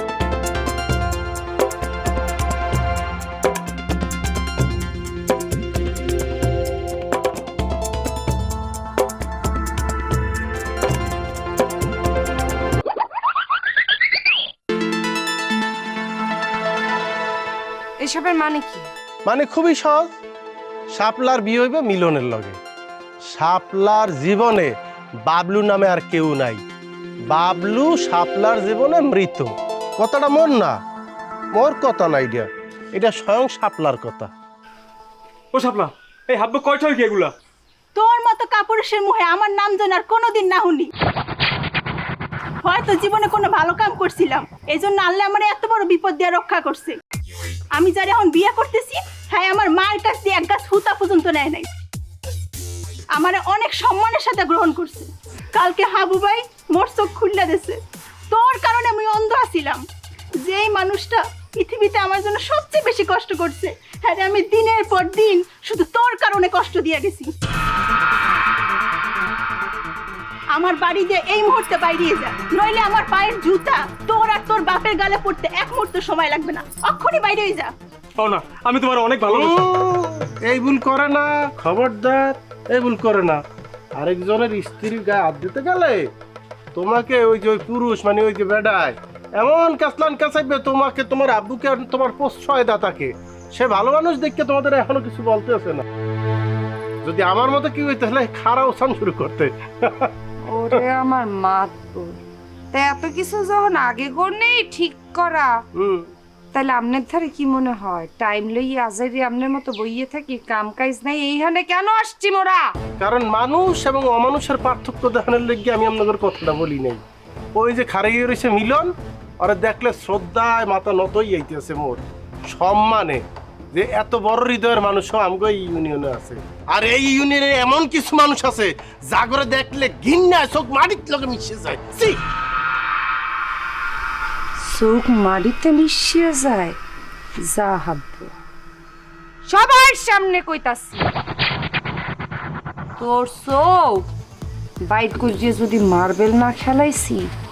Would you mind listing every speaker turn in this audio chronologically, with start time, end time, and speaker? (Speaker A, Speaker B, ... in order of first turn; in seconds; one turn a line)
Speaker A: 18.0-18.9
Speaker B: 19.3-20.2
Speaker B: 20.9-22.6
Speaker B: 23.3-24.7
Speaker B: 25.3-26.6
Speaker B: 27.3-30.8
Speaker B: 31.6-34.3
Speaker C: 35.5-37.3
Speaker D: 38.0-40.9
Speaker D: 42.6-47.0
Speaker D: 47.7-51.7
Speaker D: 53.1-57.8
Speaker D: 58.3-59.8
Speaker D: 60.5-67.3
Speaker D: 70.5-77.7
Speaker C: 78.2-79.7
Speaker B: 79.3-83.4
Speaker B: 84.0-86.1
Speaker B: 86.8-95.8
Speaker B: 97.0-100.1
Speaker A: 100.5-102.2
Speaker A: 102.7-105.6
Speaker B: 105.8-106.1
Speaker A: 106.5-112.7
Speaker B: 113.0-117.0
Speaker B: 117.5-123.2
Speaker B: 123.7-132.2
Speaker A: 134.6-136.8
Speaker A: 137.4-138.3
Speaker A: 139.4-141.1
Speaker A: 143.0-144.1
Speaker A: 144.9-147.3